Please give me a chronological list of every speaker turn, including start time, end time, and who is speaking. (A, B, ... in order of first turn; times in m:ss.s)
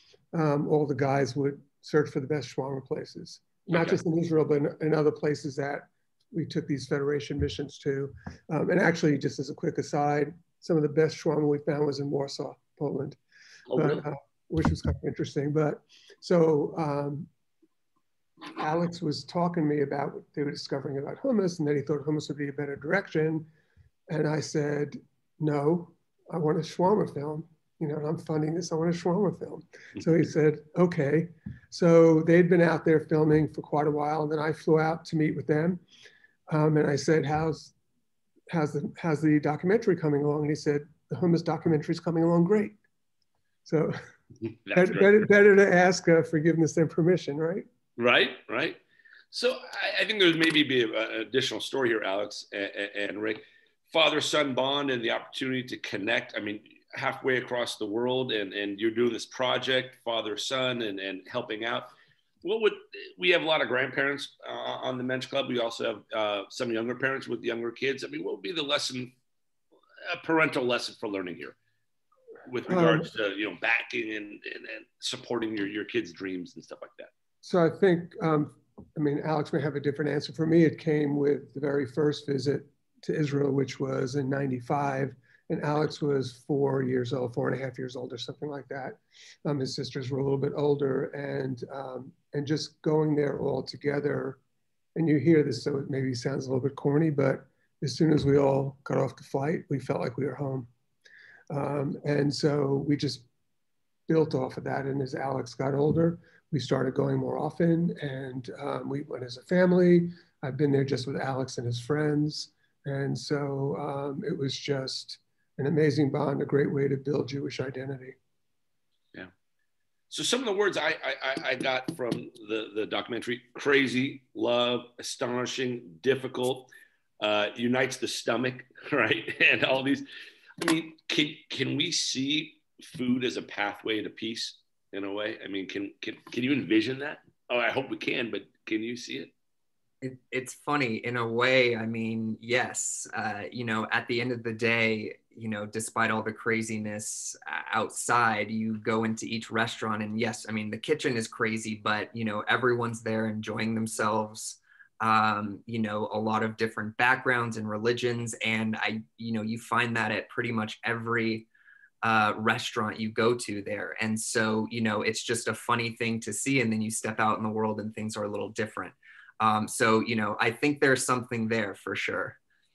0:00.3-0:13.2 A
0:03.7-0:04.0 B
0:13.7-0:14.0 B
0:13.7-0:17.3 A
0:18.6-0:23.5 A
0:24.1-0:35.8 A
0:36.5-0:37.7 A
0:38.5-0:42.8 A
0:43.6-0:44.0 A
0:44.4-0:45.3 B
0:44.7-0:47.7 A
0:48.0-0:48.8 B
0:49.3-1:01.9 B
1:02.4-1:09.1 B
1:10.1-1:11.5 B
1:12.5-1:17.1 B
1:12.7-1:13.1 A
1:17.4-1:34.4 A
1:34.9-1:40.7 A
1:41.5-1:43.2 A
1:44.1-1:58.2 A
2:00.1-2:10.0 B
2:10.6-2:19.3 B
2:20.0-2:41.4 C
2:42.0-2:52.4 C